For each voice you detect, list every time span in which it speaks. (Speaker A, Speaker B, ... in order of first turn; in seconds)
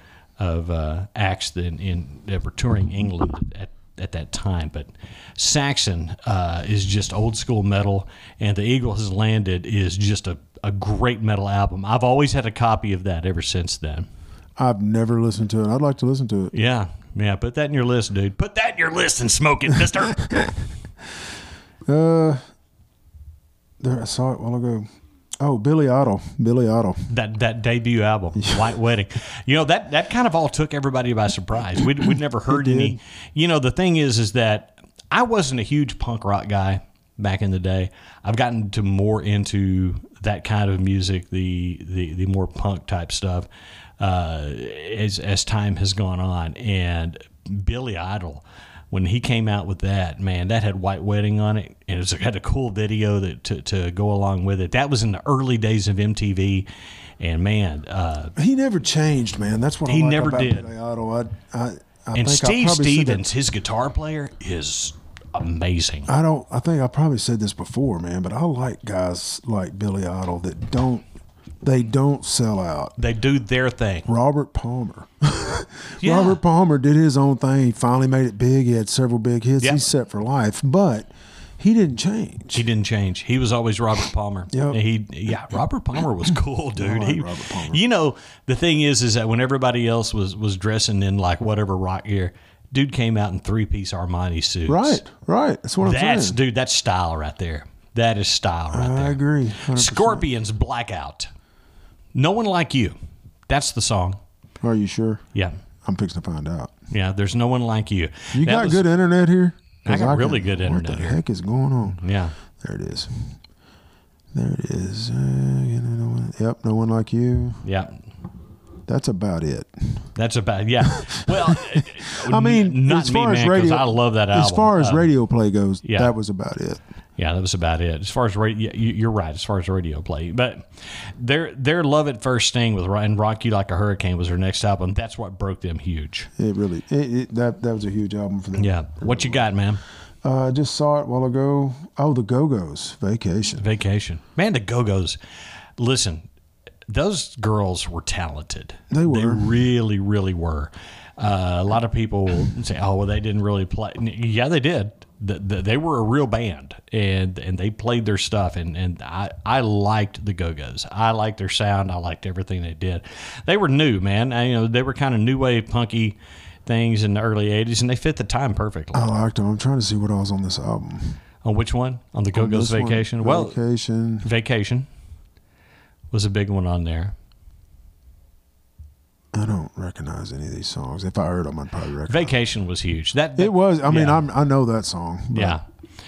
Speaker A: 0.4-14.1, 16.5-20.5, 27.1-43.5, 44.0-56.7, 57.2-58.3, 59.9-60.7, 62.1-66.1, 73.0-74.1, 76.0-76.4, 82.5-95.0, 95.8-101.3, 102.1-102.9, 103.5-104.2, 106.9-108.8, 109.8-111.2, 112.0-112.3, 117.6-118.0, 120.1-125.1, 125.8-126.1, 127.2-136.3, 138.5-139.8, 143.6-145.2, 145.8-146.2, 146.9-169.2, 171.4-173.6, 174.2-174.9, 176.1-177.1, 182.1-184.2, 185.3-185.6
Speaker B: 14.6-16.5, 21.9-22.4, 23.8-24.9, 25.4-27.1, 28.4-28.6, 32.5-33.0, 58.4-63.3, 66.1-71.0, 71.6-72.9, 74.1-82.6, 84.5-84.8, 86.8-87.8, 94.7-96.4, 98.7-100.3, 104.6-105.2, 105.8-106.7, 108.3-112.0, 112.6-113.3, 114.3-117.6, 118.9-120.0, 120.8-126.8, 136.4-139.4, 140.2-143.6, 148.9-149.4, 168.9-171.2, 172.3-174.3, 179.3-182.3, 183.4-185.6